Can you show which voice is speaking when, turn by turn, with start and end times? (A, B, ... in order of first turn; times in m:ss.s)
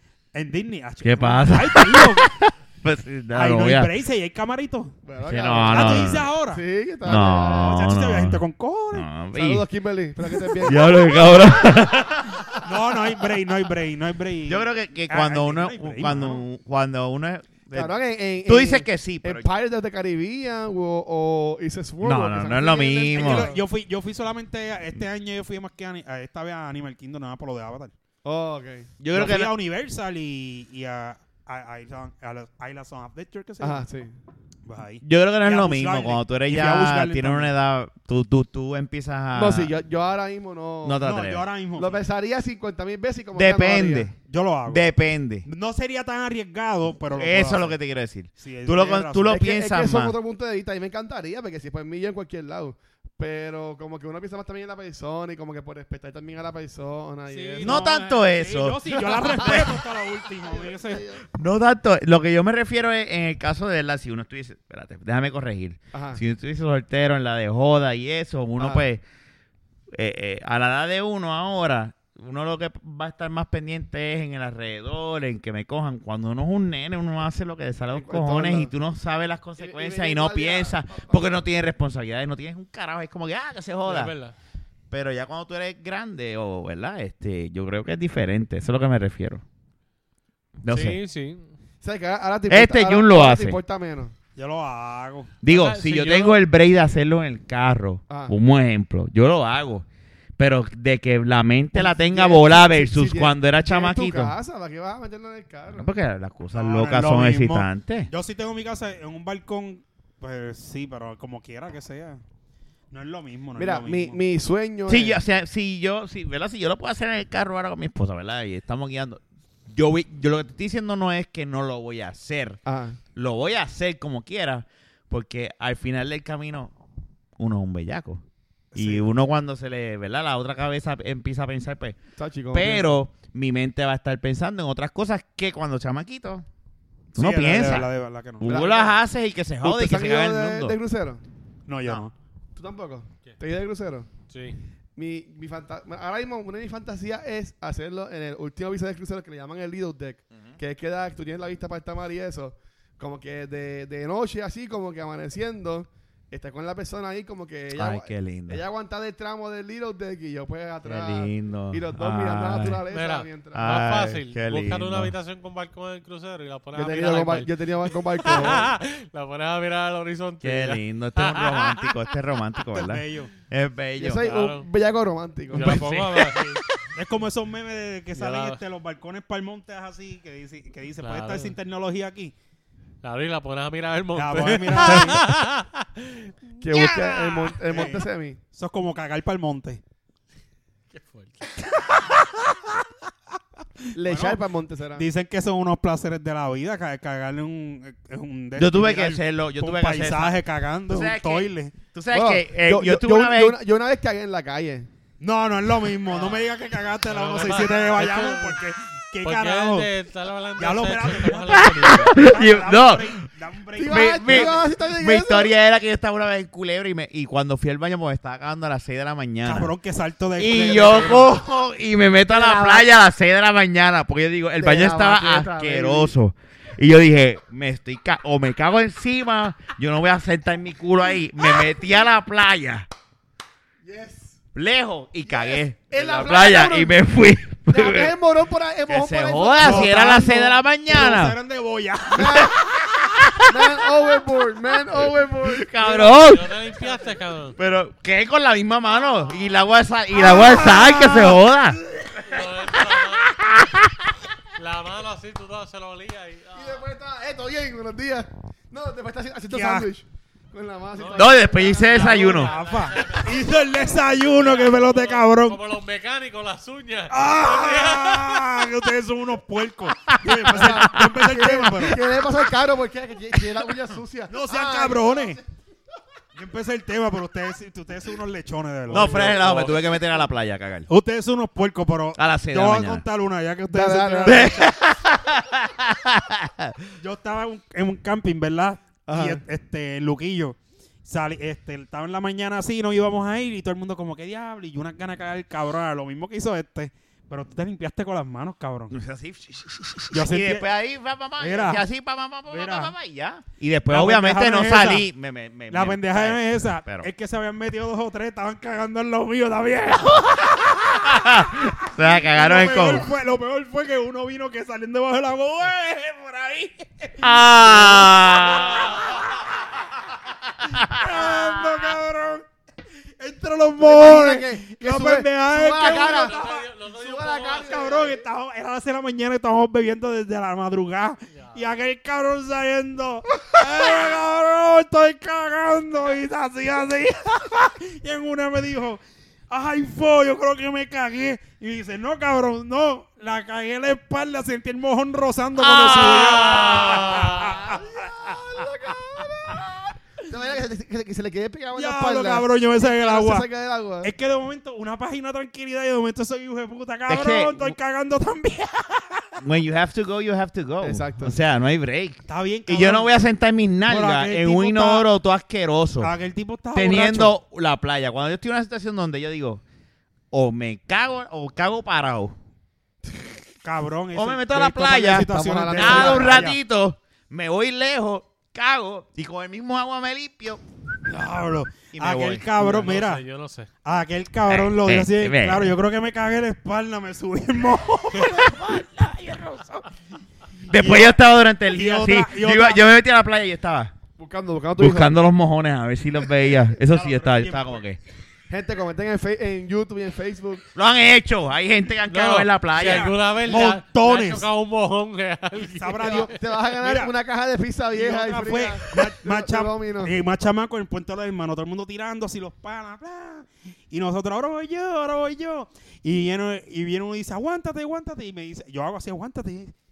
0:00.3-0:02.3 A
0:01.0-0:03.9 B
0:03.3-0:05.0 A
0:05.1-0:07.8 C
0:05.2-0:06.3 B
0:05.6-0:06.6 A
0:07.0-0:09.6 B
0:07.5-0:09.1 A
0:09.3-0:11.1 C
0:10.6-0:12.5 B
0:12.6-0:16.4 A
0:14.5-0:19.5 B
0:17.7-0:23.6 C
0:22.0-0:23.5 B
0:23.1-0:27.9 A
0:28.2-0:28.9 C
0:29.0-0:29.6 B
0:29.1-0:33.8 A
0:33.6-0:34.1 C
0:34.7-0:37.5 A
0:35.0-0:39.7 B
0:39.3-0:41.0 C
0:40.8-0:41.5 B
0:41.0-0:42.1 A
0:41.8-0:44.1 C
0:43.3-0:44.2 B
0:44.2-0:44.9 A
0:44.7-0:45.5 B
0:45.4-0:47.8 A
0:47.1-0:50.2 B
0:48.4-0:49.4 A
0:49.3-0:57.8 C
0:57.3-1:01.1 A
0:57.6-0:59.8 B
0:59.0-0:59.7 C
1:00.5-1:01.2 C
1:01.3-1:09.0 B
1:05.9-1:06.2 C
1:08.6-1:08.8 C
1:09.9-1:24.1 B
1:17.9-1:18.7 C
1:19.6-1:21.4 C
1:23.8-1:24.4 D
1:24.9-1:29.4 B
1:30.6-1:31.0 B
1:30.7-1:31.5 D
1:31.8-1:34.1 C
1:32.5-1:33.6 B
1:34.4-1:35.3 A
1:35.4-1:39.9 B
1:35.5-1:36.4 D
1:38.1-1:38.4 C
1:40.4-1:44.4 B
1:41.7-1:45.9 C
1:45.7-1:48.1 B
1:46.5-1:52.2 A
1:52.9-1:54.2 A
1:53.6-1:55.2 C
1:54.9-2:02.6 B
2:02.7-2:03.0 C
2:03.2-2:06.7 B
2:07.4-2:08.2 B
2:08.7-2:09.1 A
2:08.8-2:12.0 B
2:12.2-2:12.9 C
2:12.5-2:16.5 B
2:17.1-2:17.9 B
2:17.2-2:18.8 A
2:18.4-2:20.8 B
2:18.4-2:19.0 C
2:19.6-2:21.2 C
2:21.7-2:22.1 A
2:22.6-2:24.1 C
2:24.3-2:24.6 D
2:25.0-2:43.7 C
2:37.7-2:38.6 B
2:40.8-2:42.8 B
2:42.9-2:47.5 D
2:43.5-2:45.1 B
2:46.7-2:48.7 C
2:48.2-2:52.0 D
2:50.4-2:54.3 B
2:52.7-2:53.3 A
2:54.0-2:55.8 C
2:54.2-2:54.7 D
2:55.5-2:56.5 D
2:55.5-3:02.3 A
2:58.2-2:58.6 D
3:01.0-3:01.6 D
3:03.0-3:06.3 D
3:04.2-3:05.2 A
3:06.6-3:08.4 C
3:06.7-3:09.8 A
3:10.9-3:11.5 D
3:13.9-3:15.1 C
3:14.0-3:14.4 A
3:15.0-3:21.8 A
3:18.6-3:23.6 B
3:22.1-3:24.9 C
3:25.2-3:29.9 A
3:27.1-3:28.6 D
3:29.2-3:32.2 D
3:30.6-3:34.7 A
3:31.6-3:33.3 B
3:33.8-3:35.5 C
3:33.8-3:39.7 B
3:39.4-3:41.4 A
3:40.4-3:52.9 B
3:42.3-3:42.9 C
3:44.6-3:46.1 C
3:53.8-3:54.4 C
3:54.6-3:58.2 B
3:55.3-3:57.0 C
3:57.7-4:00.6 C
3:58.9-4:01.4 B
3:59.6-4:00.1 A
4:00.9-4:02.8 A
4:02.1-4:02.6 C
4:02.2-4:03.8 B
4:03.4-4:06.2 C
4:04.9-4:06.6 B
4:06.1-4:07.6 D
4:07.6-4:11.8 B
4:10.1-4:11.4 A
4:12.2-4:13.7 D
4:13.0-4:14.1 B
4:14.6-4:16.9 D
4:16.6-4:22.3 C
4:19.5-4:19.9 A
4:21.0-4:28.6 D
4:21.1-4:22.5 B
4:21.8-4:25.6 A
4:27.1-4:32.2 A
4:30.1-4:30.8 B
4:30.4-4:35.4 C
4:34.3-4:35.4 A
4:36.4-4:40.0 A
4:38.9-4:40.9 B
4:38.9-4:39.3 C
4:40.9-4:44.6 A
4:42.2-4:43.0 B
4:43.7-4:44.6 C
4:44.2-4:46.9 B
4:47.0-4:59.0 A
4:49.1-4:49.4 C
4:58.9-5:07.1 B
5:00.1-5:00.7 A
5:01.4-5:01.8 A
5:02.5-5:02.9 A
5:03.9-5:05.1 A
5:05.7-5:19.5 A
5:10.8-5:13.1 B
5:17.2-5:19.2 B
5:20.6-5:22.0 B
5:20.7-5:22.5 A
5:23.2-5:26.7 A
5:23.8-5:26.4 C
5:25.9-5:28.1 D
5:27.0-5:28.2 C
5:27.4-5:48.4 A
5:31.3-5:31.7 D
5:45.6-5:47.5 B
5:46.9-5:47.5 D
5:47.2-5:49.7 C
5:50.2-5:54.1 C
5:51.7-5:53.5 A
5:54.0-5:59.4 A
5:57.1-5:57.8 B
5:59.4-6:06.1 B
6:00.8-6:01.4 C
6:02.3-6:03.1 A
6:03.9-6:05.1 A
6:06.0-6:07.4 A
6:06.7-6:09.6 B
6:10.3-6:12.4 B
6:13.6-6:16.6 A
6:14.1-6:20.6 B
6:15.2-6:16.5 C
6:21.1-6:23.2 A
6:21.9-6:22.9 B
6:22.7-6:23.7 D
6:23.8-6:28.6 A
6:24.5-6:25.8 B
6:28.2-6:29.8 B
6:30.7-6:33.9 B
6:30.7-6:32.8 A
6:34.2-6:35.2 C
6:34.8-6:38.0 B
6:36.8-6:37.8 A
6:38.5-6:40.6 C
6:40.8-6:43.7 B
6:42.1-6:46.3 D
6:42.8-6:44.5 A
6:45.7-6:47.1 A
6:46.0-6:50.1 C
6:47.9-6:59.7 A